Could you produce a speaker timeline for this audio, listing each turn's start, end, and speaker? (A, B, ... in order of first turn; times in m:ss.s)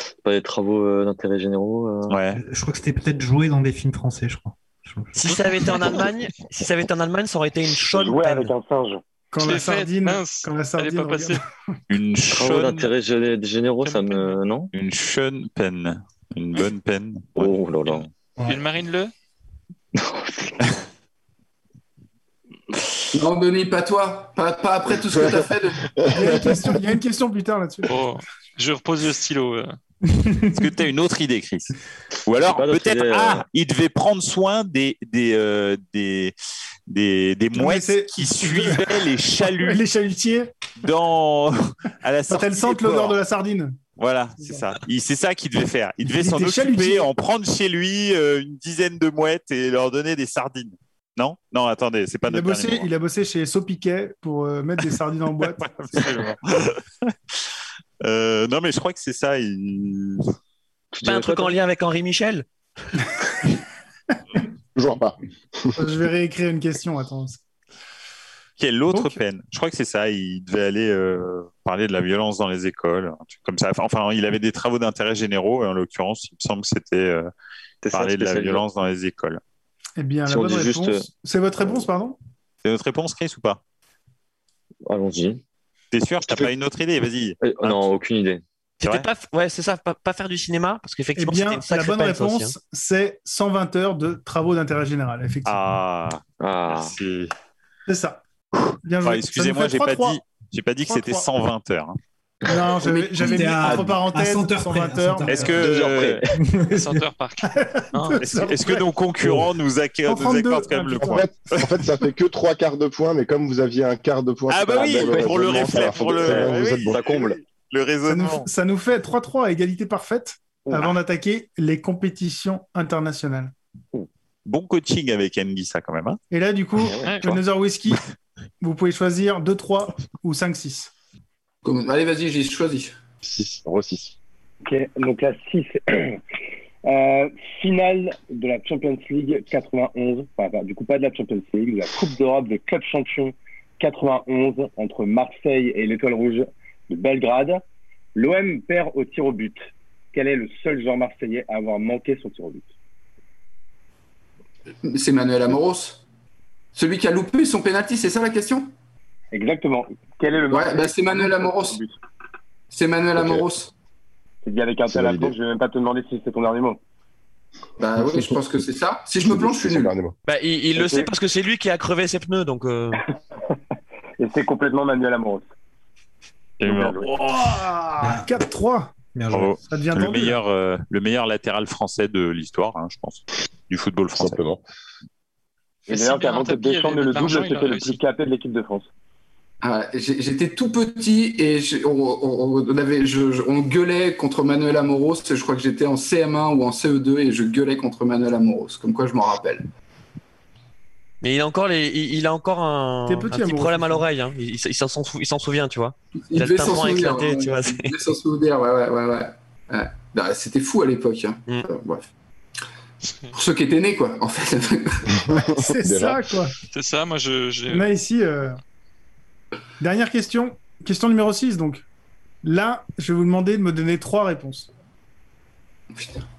0:00.2-0:02.2 A
0:02.1-0:02.4 B
0:02.3-0:05.2 C
0:05.1-0:08.5 D
0:07.9-0:09.0 E
0:09.3-0:11.4 F
0:09.4-0:11.4 G
0:11.9-0:12.9 B
0:12.3-0:14.7 A
0:13.8-0:14.4 G
0:14.7-0:17.6 B
0:17.4-0:18.1 A
0:17.8-0:19.1 G
0:19.9-0:20.7 A
0:23.1-0:25.9 H
0:25.1-0:25.4 I
0:26.0-0:26.8 I
0:26.1-0:28.0 F
0:27.8-0:29.7 G
0:30.2-0:30.6 F
0:30.5-0:36.3 B
0:32.4-0:33.4 A
0:36.9-0:39.8 B
0:37.5-0:40.5 F
0:40.8-0:43.2 B
0:42.3-0:43.8 F
0:44.0-0:52.9 B
0:46.1-0:47.1 F
0:52.3-0:56.0 F
0:55.4-0:57.4 B
0:58.0-1:00.3 B
1:00.9-1:01.5 A
1:01.0-1:02.4 D
1:04.7-1:05.8 I
1:05.8-1:07.4 F
1:08.6-1:17.3 B
1:17.8-1:18.6 A
1:17.9-1:19.4 B
1:20.0-1:22.2 F
1:20.2-1:21.0 A
1:22.6-1:23.6 B
1:24.8-1:25.4 A
1:25.9-1:27.8 B
1:26.2-1:26.5 A
1:27.4-1:28.4 A
1:28.8-1:32.5 D
1:31.2-1:35.6 F
1:35.4-1:37.3 B
1:36.4-1:36.9 A
1:37.9-1:38.2 F
1:38.6-1:42.0 B
1:38.8-1:40.2 F
1:40.9-1:41.3 F
1:42.5-1:45.5 F
1:43.0-1:45.7 C
1:45.3-1:46.2 B
1:45.5-1:46.4 A
1:46.3-1:47.0 C
1:46.7-1:48.2 G
1:47.4-1:48.9 F
1:48.2-1:51.7 B
1:50.1-1:51.3 F
1:51.0-1:57.0 I
1:54.5-1:58.5 B
1:54.7-1:57.4 A
1:58.1-2:03.5 F
2:00.6-2:00.9 A
2:04.4-2:06.2 B
2:06.3-2:08.0 F
2:06.8-2:07.4 A
2:07.0-2:07.4 G
2:08.6-2:10.9 F
2:11.6-2:13.0 H
2:13.2-2:14.2 I
2:14.6-2:16.2 E
2:16.8-2:27.6 E
2:28.1-2:32.7 E
2:34.8-2:36.0 H
2:36.7-2:38.7 H
2:39.3-2:41.9 E
2:40.5-2:41.8 H
2:42.7-2:43.7 H
2:43.2-2:43.4 I
2:44.4-2:46.8 E
2:44.9-2:45.3 I
2:47.8-2:49.9 H
2:48.0-2:48.4 I
2:49.2-2:50.2 I
2:50.3-2:53.0 D
2:50.8-2:51.1 E
2:54.2-2:55.4 E
2:56.6-2:57.1 B
2:56.6-2:57.1 E
2:57.1-2:59.0 F
2:58.0-2:58.3 C
2:59.1-2:59.5 C
2:59.3-3:04.4 B
2:59.7-3:00.4 F
3:04.2-3:04.6 I
3:05.9-3:08.9 E
3:05.9-3:08.0 G
3:09.6-3:19.7 H
3:21.2-3:27.9 D
3:23.0-3:24.0 F
3:26.3-3:32.1 H
3:33.0-3:33.3 G
3:33.3-3:35.1 H
3:35.1-3:36.2 I
3:35.6-3:36.5 F
3:36.7-3:37.9 G
3:37.7-3:38.6 F
3:39.8-3:41.8 F
3:42.4-3:44.7 F
3:46.0-3:46.2 H